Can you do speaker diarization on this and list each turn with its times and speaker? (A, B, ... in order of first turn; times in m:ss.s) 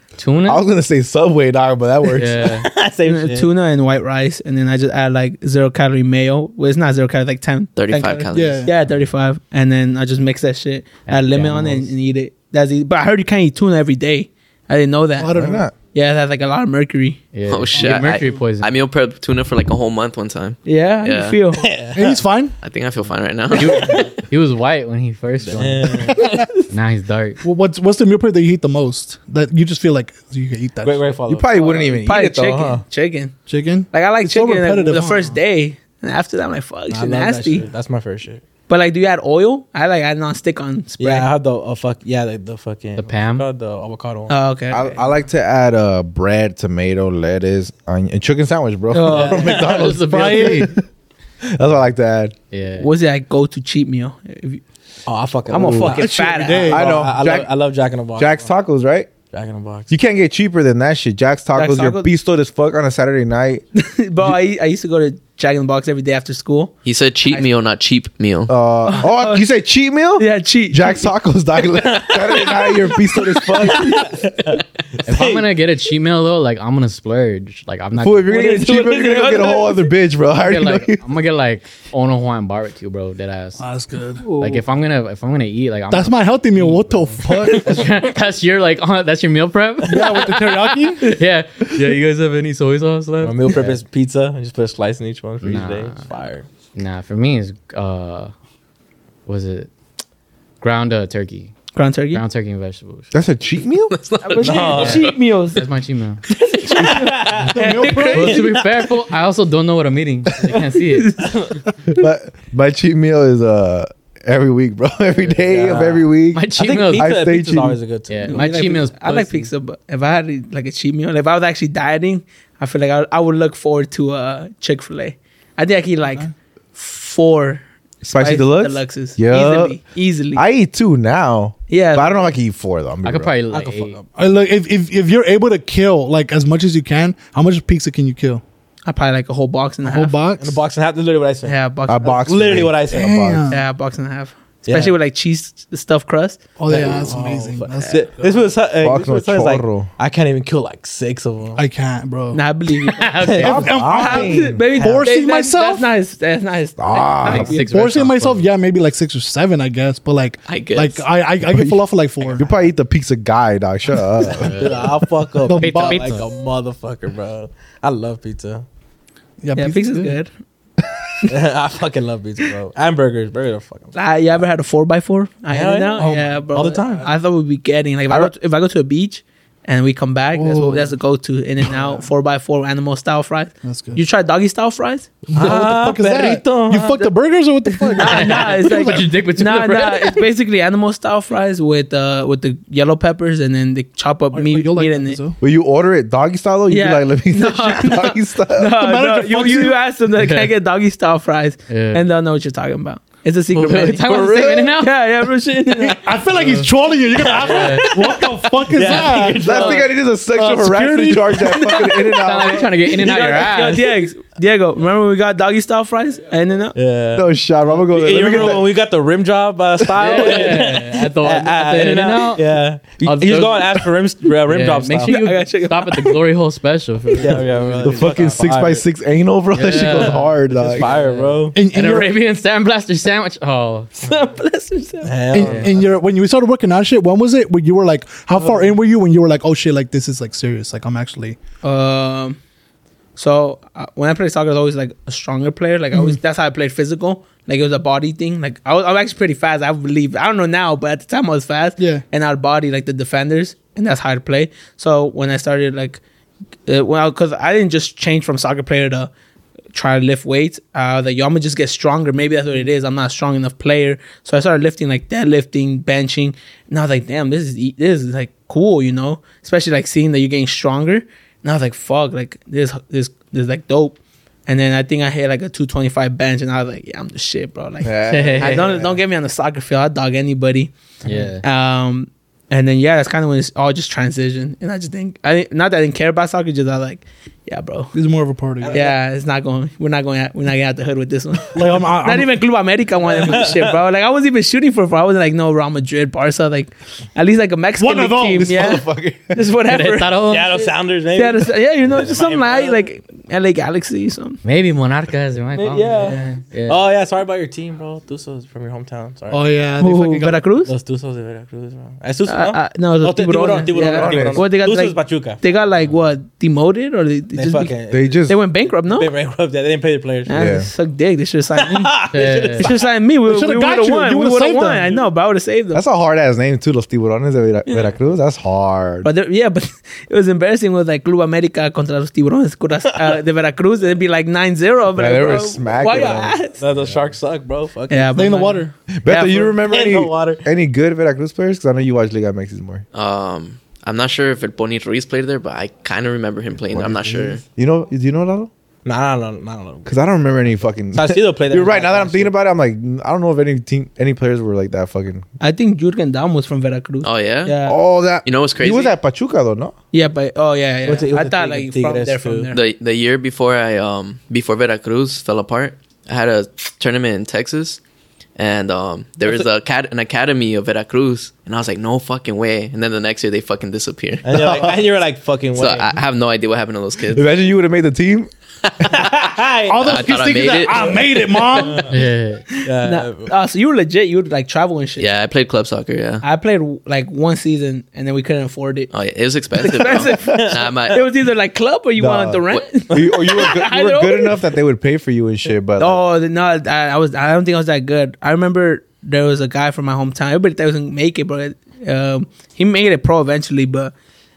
0:00.2-0:00.6 A
0:00.4-0:02.5 B
0:02.1-0:02.7 A
0:02.6-0:03.5 C
0:03.0-0:15.3 D
0:07.7-0:08.7 E
0:08.3-0:08.7 F
0:11.1-0:11.9 A
0:15.2-0:15.6 F
0:15.3-0:15.7 B
0:15.9-0:17.2 D
0:17.3-0:18.7 A
0:17.5-0:21.4 E
0:17.7-0:18.4 F
0:20.6-0:21.6 D
0:21.6-0:22.2 C
0:21.9-0:22.6 F
0:22.6-0:24.0 E
0:23.5-0:27.4 A
0:23.5-0:24.1 C
0:25.5-0:26.4 C
0:26.0-0:26.5 F
0:27.4-0:31.1 F
0:30.8-0:32.0 C
0:31.3-0:32.8 B
0:31.9-0:33.3 D
0:33.5-0:35.4 F
0:33.9-0:37.6 D
0:36.9-0:38.4 C
0:38.7-0:41.3 D
0:41.0-0:44.4 C
0:43.0-0:43.4 A
0:44.3-0:45.1 D
0:44.7-0:50.8 B
0:48.9-0:49.6 D
0:49.1-0:50.7 A
0:49.3-0:49.9 C
0:50.0-0:50.6 F
0:51.5-0:52.3 B
0:52.5-0:52.9 A
0:52.8-0:54.6 D
0:55.0-0:58.5 C
0:55.5-0:56.8 D
0:55.6-0:55.9 B
0:55.9-0:56.9 F
0:56.7-0:57.5 B
0:58.2-0:59.1 B
0:59.3-0:59.9 C
0:59.9-1:03.6 B
1:01.5-1:02.1 D
1:03.8-1:06.7 D
1:06.8-1:08.5 E
1:08.5-1:14.2 B
1:08.8-1:09.4 D
1:10.2-1:11.1 D
1:11.9-1:12.7 C
1:13.5-1:15.5 C
1:15.0-1:18.3 A
1:18.0-1:21.0 B
1:18.3-1:19.9 D
1:20.4-1:23.6 A
1:23.6-1:24.6 F
1:24.3-1:33.8 A
1:25.9-1:27.9 F
1:29.8-1:31.2 F
1:33.2-1:36.5 C
1:35.4-1:36.0 A
1:36.7-1:38.3 A
1:39.3-1:39.7 A
1:40.6-1:41.6 A
1:41.7-1:42.2 D
1:42.1-1:43.1 A
1:43.1-1:44.0 B
1:43.9-1:44.9 E
1:44.2-1:45.6 D
1:44.4-1:45.1 C
1:45.5-1:46.2 A
1:46.3-1:48.6 D
1:46.6-1:47.7 C
1:47.4-1:51.3 A
1:47.5-1:48.4 F
1:51.0-1:51.3 D
1:51.2-1:51.6 C
1:51.9-1:57.8 B
1:55.3-1:58.4 C
1:56.3-1:57.1 A
1:58.1-1:59.5 A
1:58.3-2:10.4 D
2:08.0-2:09.8 B
2:10.3-2:13.3 B
2:11.7-2:12.3 D
2:13.0-2:14.0 A
2:13.5-2:14.1 C
2:14.1-2:18.4 F
2:18.8-2:20.2 D
2:19.8-2:20.6 F
2:20.4-2:21.5 C
2:21.4-2:22.3 D
2:21.9-2:23.5 B
2:22.2-2:23.3 C
2:22.9-2:23.6 F
2:23.5-2:26.4 D
2:24.6-2:24.9 C
2:26.6-2:28.2 F
2:26.7-2:31.6 C
2:28.8-2:29.9 B
2:31.6-2:32.4 F
2:32.3-2:33.2 D
2:32.9-2:33.8 A
2:33.2-2:33.7 C
2:33.4-2:34.7 B
2:33.4-2:35.9 F
2:33.9-2:37.6 D
2:34.8-2:35.0 C
2:36.8-2:37.6 B
2:37.2-2:38.5 A
2:37.3-2:42.4 F
2:40.4-2:41.2 E
2:41.5-2:41.8 B
2:42.3-2:44.8 B
2:44.3-2:44.9 A
2:44.5-2:48.6 C
2:45.4-2:46.2 F
2:45.6-2:46.2 A
2:49.4-2:50.1 F
2:49.5-2:50.3 D
2:51.3-2:53.9 C
2:53.9-3:05.1 D
2:55.5-2:57.1 C
2:56.0-2:56.3 F
3:00.3-3:00.9 F
3:01.6-3:02.0 F
3:03.6-3:04.0 F
3:05.3-3:09.1 F
3:05.3-3:07.1 C
3:07.7-3:15.2 D
3:08.0-3:10.2 A
3:14.3-3:15.4 F
3:15.4-3:18.7 B
3:16.7-3:24.1 D
3:18.7-3:19.8 F
3:20.2-3:20.5 A
3:21.7-3:22.0 A
3:23.5-3:25.0 A
3:24.0-3:24.7 B
3:24.8-3:26.2 D
3:25.8-3:29.5 F
3:26.3-3:26.7 A
3:27.2-3:29.9 C
3:27.2-3:28.2 A
3:28.8-3:29.8 A
3:29.4-3:32.7 B
3:30.3-3:31.4 F
3:31.4-3:36.8 D
3:32.1-3:34.0 A
3:36.7-3:45.2 C
3:37.1-3:38.7 B
3:40.0-3:43.9 A
3:44.4-3:48.3 A
3:45.1-3:46.2 D
3:47.2-3:48.8 C
3:47.9-3:50.9 B
3:49.5-3:53.9 A
3:49.9-3:51.6 C
3:51.5-3:52.1 F
3:54.0-3:55.2 D
3:55.0-3:55.9 C
3:55.3-4:01.4 F
3:55.4-3:55.7 A
3:58.3-3:58.7 C
4:01.6-4:02.4 D
4:03.2-4:16.0 D
4:11.8-4:12.0 F
4:16.7-4:19.1 D
4:19.7-4:40.7 D
4:37.8-4:39.0 B
4:38.1-4:38.7 A
4:41.0-4:41.4 A
4:41.4-4:47.9 D
4:47.9-4:48.8 F
4:48.6-4:49.0 C
4:48.7-5:00.2 D
4:51.5-4:52.4 F
4:53.0-4:53.7 C
4:57.8-4:58.6 F
4:58.4-4:59.4 B
4:59.7-5:00.8 A
5:00.2-5:02.8 C
5:01.1-5:04.4 D
5:04.4-5:06.8 A
5:05.6-5:06.3 D
5:06.7-5:09.5 C
5:09.3-5:10.4 F
5:09.8-5:10.7 D
5:10.6-5:15.4 C
5:12.3-5:19.1 D
5:13.9-5:14.4 B
5:17.3-5:18.2 C
5:17.9-5:18.4 B
5:18.8-5:20.4 C
5:20.3-5:25.8 D
5:20.3-5:20.7 B
5:21.6-5:22.8 C
5:22.1-5:22.7 A
5:23.2-5:25.0 F
5:25.7-5:29.1 B
5:29.0-5:36.6 D
5:34.9-5:36.3 B
5:36.6-5:38.1 C
5:36.8-5:37.1 A
5:37.9-5:38.7 D
5:38.1-5:38.8 F
5:39.0-5:42.8 B
5:39.1-5:40.4 C
5:42.9-5:47.4 E
5:46.7-5:48.5 B
5:48.8-5:52.3 C
5:49.8-5:55.2 B
5:55.4-5:57.8 D
5:57.0-5:57.6 E
5:57.6-5:59.7 B
5:58.2-5:59.0 E
5:59.9-6:02.6 D
6:00.8-6:02.5 C
6:02.5-6:07.8 E
6:08.4-6:14.6 E
6:14.2-6:16.0 C
6:14.4-6:14.7 B
6:15.5-6:17.3 E
6:17.1-6:19.1 B
6:18.8-6:19.9 C
6:19.7-6:21.9 F
6:19.8-6:20.9 E
6:20.8-6:21.9 C
6:21.6-6:21.8 D
6:21.9-6:22.4 A
6:22.6-6:25.1 D
6:22.6-6:23.3 C
6:25.0-6:26.2 E
6:26.2-6:28.9 D
6:28.9-6:31.0 E
6:29.6-6:34.4 D
6:29.9-6:31.0 C
6:32.0-6:36.0 B
6:35.8-6:43.9 D